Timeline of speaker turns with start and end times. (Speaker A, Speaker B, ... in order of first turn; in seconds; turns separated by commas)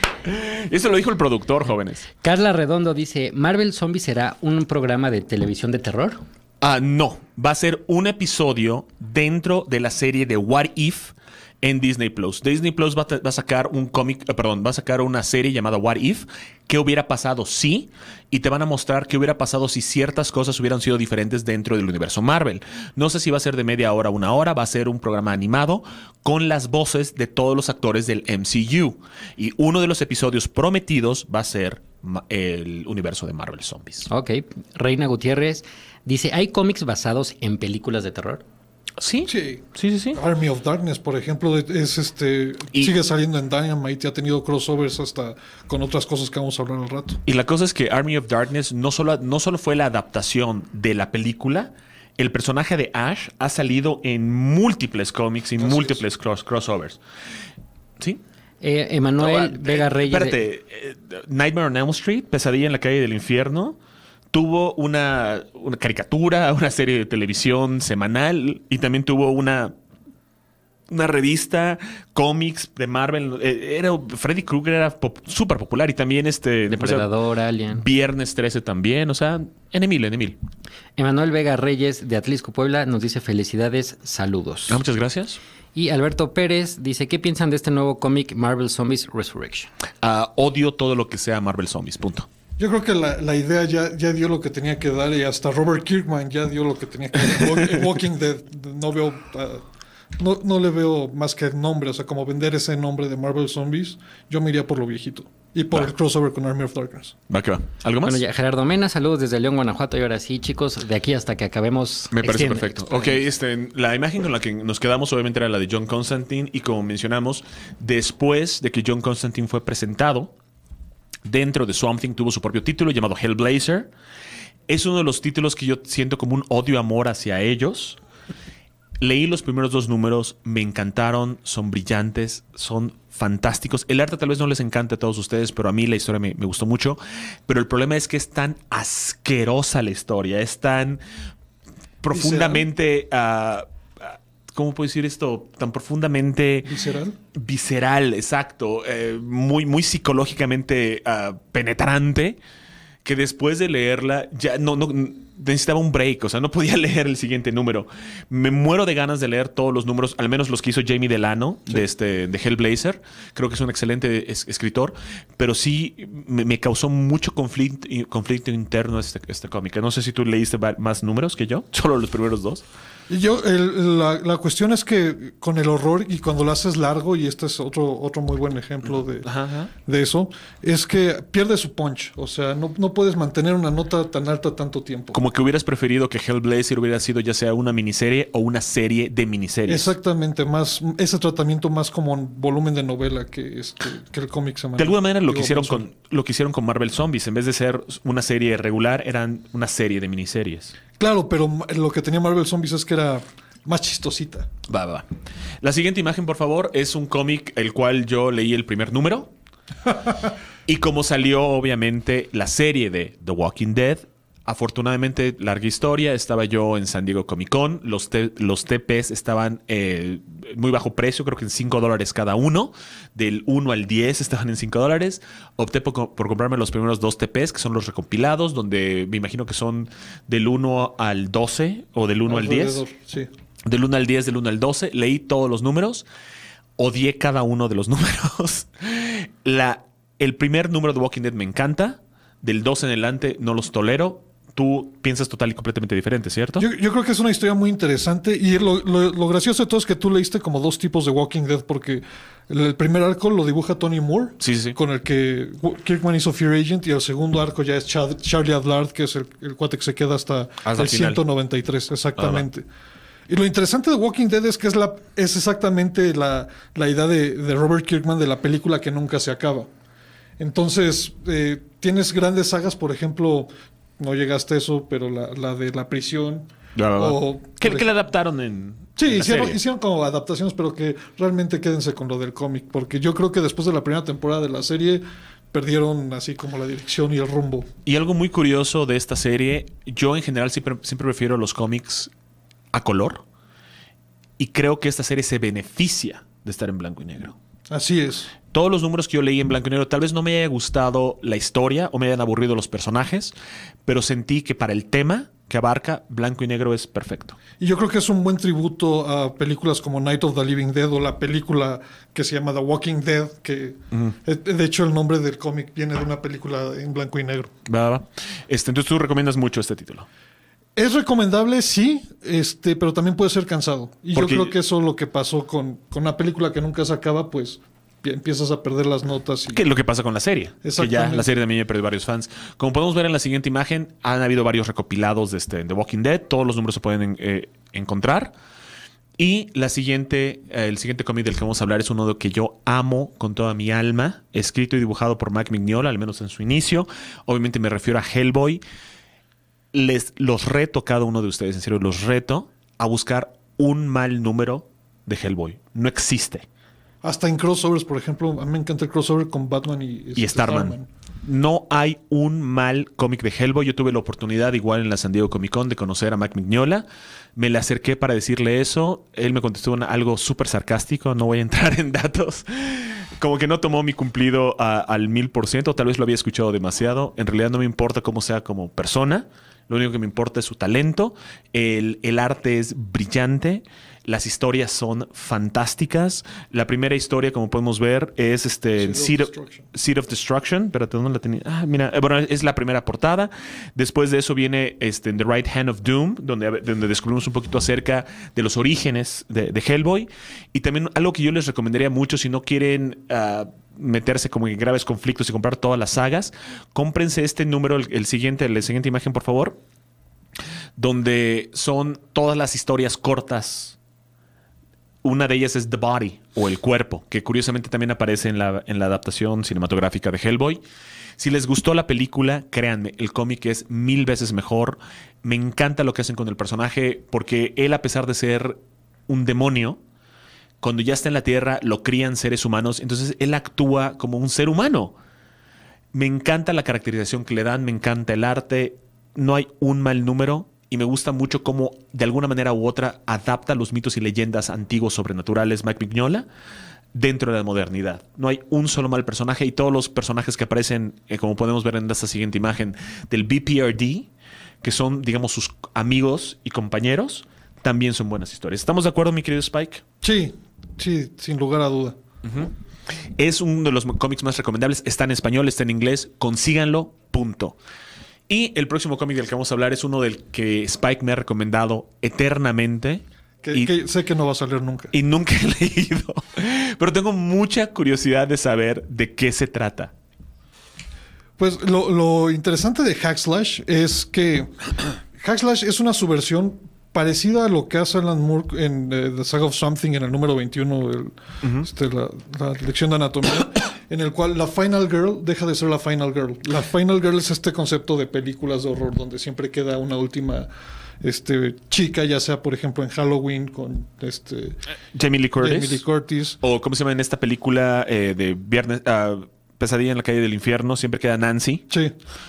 Speaker A: 0.3-2.1, Speaker B: 2.2-6.2, Speaker A: 6.6-34.1, Speaker B: 34.1-38.4, Speaker A: 39.0-40.2, Speaker C: 39.3-39.6, Speaker C: 40.1-47.2, Speaker A: 47.3-57.0, Speaker C: 55.6-56.0, Speaker B: 58.6-60.4, Speaker A: 59.2-63.8, Speaker A: 64.3-69.7, Speaker A: 70.9-77.1, Speaker B: 76.7-77.8, Speaker A: 77.7-80.4, Speaker B: 81.0-84.8, Speaker A: 84.7-85.4, Speaker B: 85.8-89.7, Speaker A: 90.0-92.3, Speaker C: 92.6-99.6, Speaker C: 100.2-107.2, Speaker A: 107.3-108.2, Speaker B: 108.1-113.2, Speaker A: 112.1-120.3, Speaker A: 121.3-123.9, Speaker A: 124.7-128.0, Speaker A: 129.0-141.0, Speaker A: 142.0-146.8, Speaker C: 142.1-142.7, Speaker C: 146.7-147.2, Speaker A: 147.3-152.4, Speaker A: 153.1-172.6, Speaker C: 173.1-179.3, Speaker A: 179.2-179.7, Speaker C: 179.8-185.2, Speaker A: 185.1-189.9, Speaker C: 189.7-195.8, Speaker A: 194.8-200.8, Speaker C: 201.0-204.5, Speaker A: 204.7-205.1, Speaker A: 205.6-209.3, Speaker A: 210.7-232.8, Speaker C: 232.3-233.3, Speaker A: 233.7-236.1, Speaker A: 236.8-246.7, Speaker C: 246.6-262.7, Speaker A: 254.4-254.8, Speaker A: 260.6-261.2, Speaker A: 262.2-262.4, Speaker C: 263.3-269.7, Speaker C: 270.4-277.9, Speaker A: 276.8-279.6, Speaker C: 279.0-287.7, Speaker A: 287.9-292.1, Speaker A: 292.7-293.2, Speaker A: 294.4-297.4, Speaker C: 297.7-298.3, Speaker A: 298.5-303.3, Speaker A: 303.9-307.4, Speaker C: 307.6-317.5, Speaker A: 317.7-320.1, Speaker C: 320.8-329.6, Speaker A: 324.2-324.5, Speaker A: 329.5-338.3, Speaker C: 330.6-331.3, Speaker A: 339.2-348.6, Speaker A: 349.7-356.4, Speaker C: 357.0-360.9, Speaker A: 360.2-366.9, Speaker A: 367.4-409.6, Speaker C: 388.8-389.7, Speaker A: 410.8-413.8, Speaker A: 415.0-420.6, Speaker A: 421.2-429.8, Speaker A: 430.6-435.0, Speaker A: 435.9-446.3, Speaker A: 446.9-454.1, Speaker A: 454.6-459.8, Speaker C: 460.0-462.0, Speaker A: 462.2-462.5, Speaker A: 463.2-467.6, Speaker A: 468.3-473.7, Speaker C: 473.4-474.9, Speaker A: 474.9-479.9, Speaker C: 481.4-484.5, Speaker C: 485.2-500.5, Speaker C: 501.0-504.6, Speaker A: 504.9-505.8, Speaker C: 505.4-506.4, Speaker A: 506.4-511.7, Speaker C: 511.7-511.9